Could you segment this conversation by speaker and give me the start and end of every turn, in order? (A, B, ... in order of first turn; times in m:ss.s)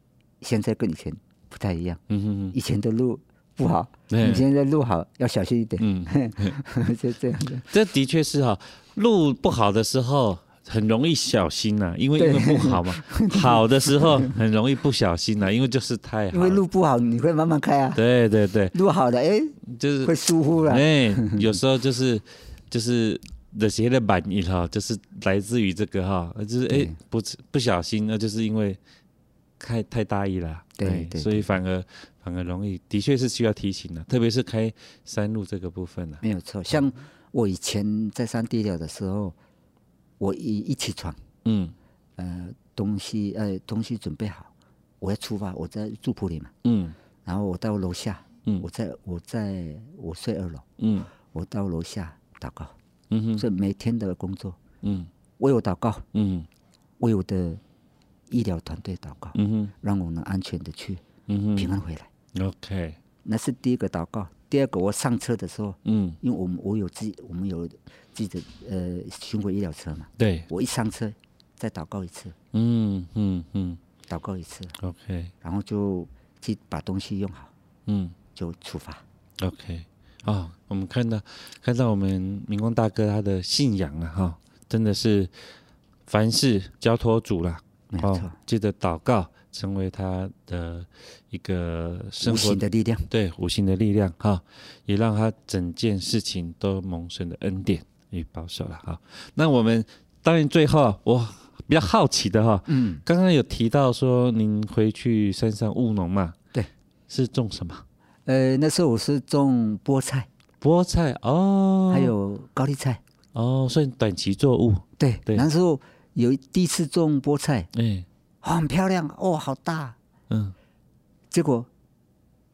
0:00.4-0:02.0 A
0:02.1-0:02.6 B
0:02.5-0:07.7 A
0:04.1-0:04.4 B
0:05.8-0:06.6 B
0:07.7-0:16.6 B
0:12.2-0:14.3 A
0:16.3-0:18.0 A
0:17.9-0:18.8 B
0:18.7-0:21.6 A
0:19.6-0:28.8 B
0:26.7-0:26.9 A
0:29.6-0:36.8 B
0:30.8-0:31.5 A
0:36.2-0:39.4 A
0:40.2-0:41.2 A
0:41.4-0:41.7 B
0:42.2-0:44.5 A
0:45.0-0:46.5 A
0:46.6-0:46.9 B
0:47.2-0:50.6 A
0:50.8-0:51.1 B
0:51.2-0:52.7 A
0:53.1-0:53.4 B
0:53.4-0:54.6 A
0:54.8-0:55.1 B
0:55.4-0:56.0 A
0:56.1-0:56.5 B
0:57.0-0:57.6 A
0:58.3-1:01.0 A
0:59.3-0:59.7 B
1:01.3-1:01.7 B
1:01.6-1:02.1 A
1:02.3-1:03.0 B
1:03.2-1:12.3 A
1:05.8-1:06.2 B
1:10.2-1:10.5 B
1:12.5-1:13.8 B
1:14.1-1:14.7 A
1:14.8-1:15.3 B
1:15.4-1:17.5 A
1:17.9-1:18.1 B
1:18.3-1:19.0 A
1:19.4-1:25.3 B
1:26.1-1:46.4 B
1:27.9-1:28.4 A
1:32.2-1:33.1 A
1:42.7-1:43.0 A
1:47.1-1:47.8 B
1:48.3-1:50.3 A
1:50.6-1:52.1 B
1:51.9-1:53.0 A
1:53.3-1:55.5 B
1:55.0-1:57.7 A
1:57.7-1:58.0 B
1:58.4-2:00.0 A
2:00.3-2:00.6 B
2:01.3-2:01.7 A